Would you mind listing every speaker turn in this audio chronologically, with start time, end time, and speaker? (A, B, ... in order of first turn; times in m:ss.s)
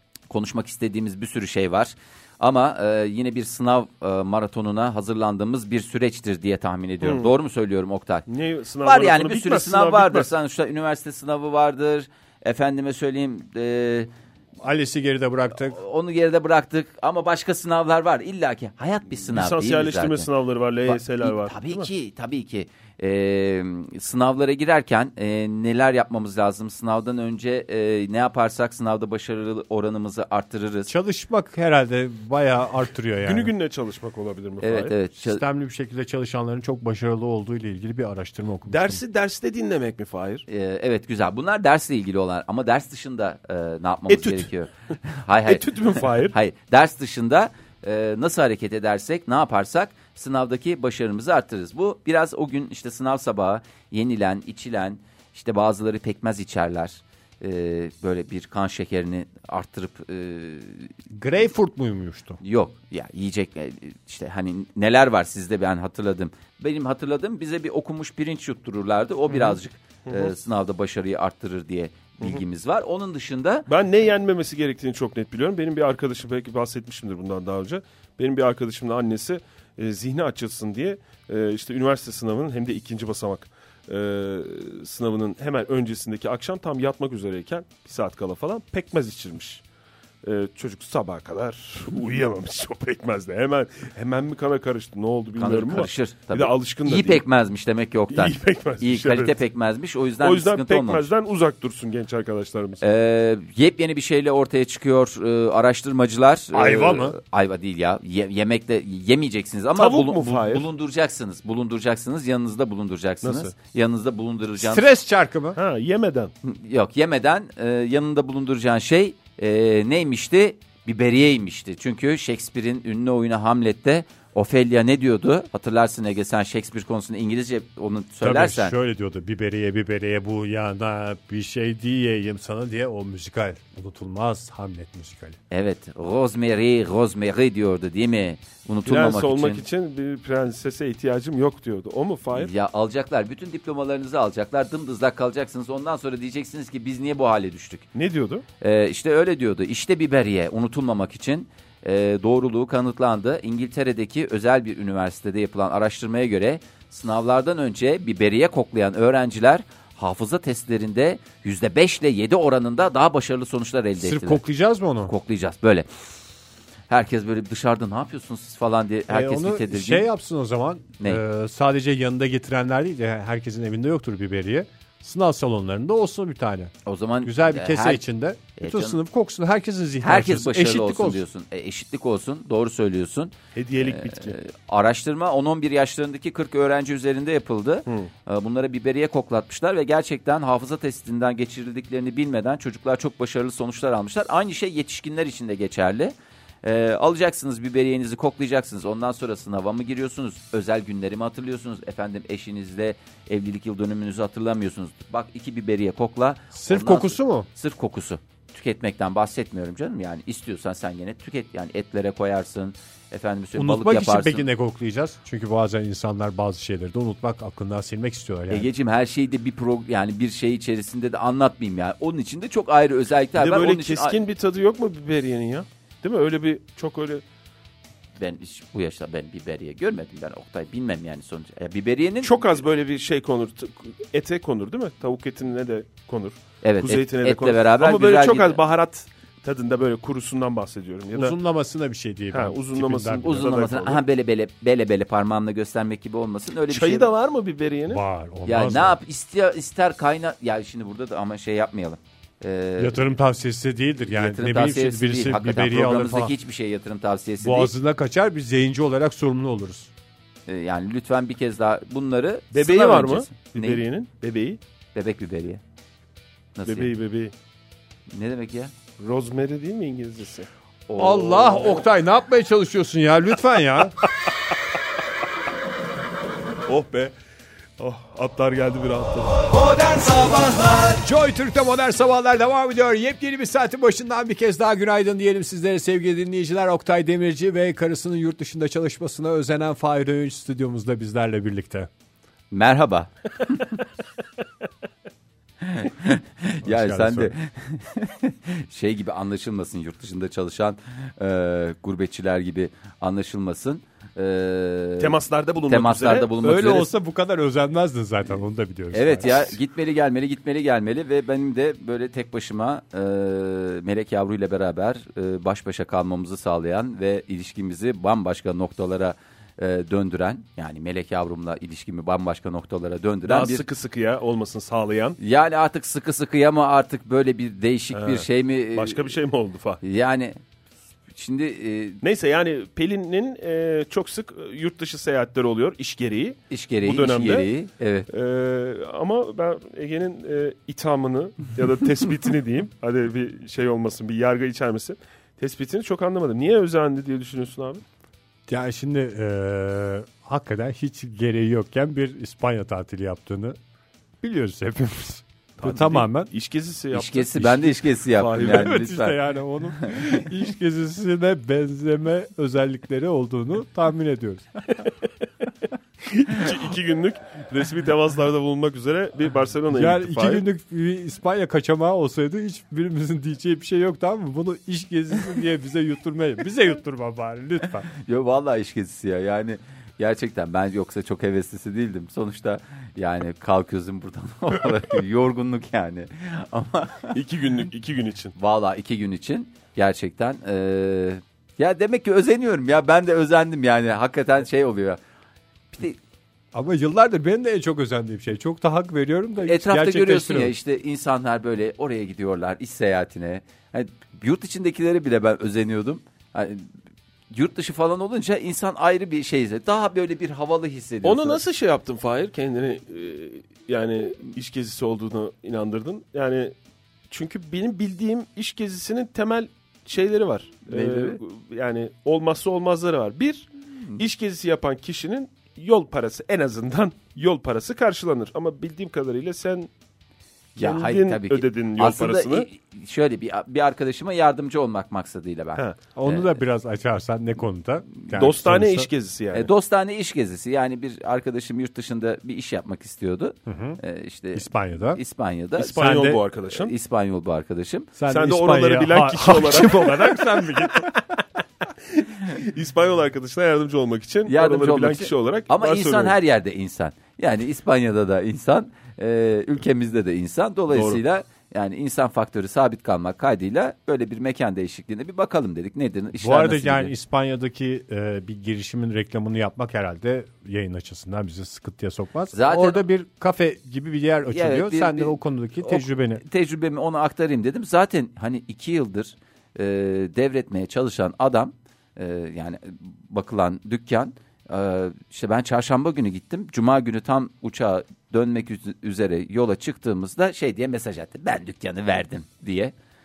0:00.3-0:08.2 A
0:07.0-0:07.3 B
0:08.3-0:10.3 B
0:08.8-0:14.1 A
0:14.6-0:15.8 C
0:15.6-0:20.3 A
0:19.3-0:21.9 B
0:20.8-0:30.9 A
0:30.9-0:33.5 C
0:33.2-0:34.9 B
0:34.6-0:35.4 A
0:35.2-0:39.0 C
0:38.7-0:40.4 B
0:40.5-1:00.9 A
0:44.1-0:44.5 B
0:45.4-0:46.4 B
1:01.1-1:02.4 C
1:02.4-1:13.7 A
1:09.3-1:10.3 B
1:13.7-1:29.6 B
1:30.2-1:37.2 B
1:35.4-1:41.0 A
1:38.1-1:39.4 B
1:40.2-1:42.8 B
1:42.8-1:54.8 A
1:46.5-1:47.2 C
1:49.8-1:50.6 B
1:53.2-1:53.5 B
1:54.6-1:55.6 C
1:55.6-1:56.3 B
1:56.4-2:08.7 A
2:08.2-2:15.4 C
2:15.5-2:19.6 A
2:18.9-2:22.5 B
2:22.3-2:27.8 A
2:27.9-2:28.4 B
2:28.6-2:44.4 A
2:44.0-2:45.1 C
2:45.0-2:45.9 A
2:46.9-2:50.1 A
2:49.1-3:01.2 C
2:56.8-2:58.0 A
2:58.6-2:59.0 A
3:00.0-3:34.5 A
3:03.5-3:04.4 B
3:26.5-3:27.5 C
3:33.6-3:38.7 C
3:38.5-3:44.2 A
3:43.4-3:47.2 B
3:48.2-3:52.6 A
3:52.2-4:01.4 B
3:56.6-3:58.6 A
4:01.1-4:03.4 C
4:02.3-4:04.0 B
4:03.2-4:07.1 A
4:06.7-4:08.0 B
4:07.9-4:09.0 C
4:08.4-4:13.0 A
4:12.8-4:16.3 C
4:14.0-4:17.7 A
4:17.4-4:19.9 C
4:20.5-4:23.8 A
4:22.5-4:24.6 B
4:24.9-4:25.6 A
4:26.6-4:26.9 A
4:26.6-4:27.3 B
4:28.1-4:28.7 A
4:29.0-4:30.5 B
4:30.9-4:31.8 A
4:31.0-4:34.0 C
4:36.7-4:37.1 B
4:37.8-4:40.0 B
4:40.9-4:51.9 C
4:52.5-4:53.8 A
4:55.6-5:06.9 A
4:56.6-4:57.3 C
5:05.0-5:06.3 B
5:06.4-5:09.5 C
5:08.9-5:23.6 A
5:23.2-5:25.2 B
5:25.2-5:29.2 A
5:27.9-5:29.8 B
5:29.8-5:30.4 A
5:31.1-5:32.0 A
5:32.0-5:37.5 B
5:36.5-5:38.1 A
5:38.1-5:47.8 B
5:48.5-5:53.6 C
5:54.2-5:56.3 C
5:55.6-5:58.8 B
5:56.9-5:59.2 A
5:58.4-6:04.7 C
5:59.8-6:00.2 A
6:06.1-6:10.4 B
6:09.7-6:17.9 C
6:17.9-6:27.2 A
6:27.1-6:28.3 B
6:28.4-6:35.0 A
6:35.7-6:36.0 A
6:36.5-6:40.5 C
6:39.4-6:46.7 A
6:47.3-6:51.4 A
6:51.0-6:56.5 B
6:57.1-7:09.7 B
7:00.7-7:01.2 A
7:10.6-7:12.5 B
7:10.6-7:16.4 A
7:15.9-7:18.9 C
7:18.1-7:19.5 B
7:19.3-7:25.8 A
7:23.5-7:23.8 C
7:24.3-7:25.0 C
7:25.6-7:26.7 B
7:25.7-7:26.2 C
7:26.5-7:27.9 A
7:28.0-7:30.9 C
7:28.1-7:31.1 B
7:31.9-7:36.1 B
7:34.3-7:46.9 A
7:40.7-7:41.0 B
7:46.2-7:56.2 C
7:52.3-7:52.8 A
7:54.3-8:12.7 A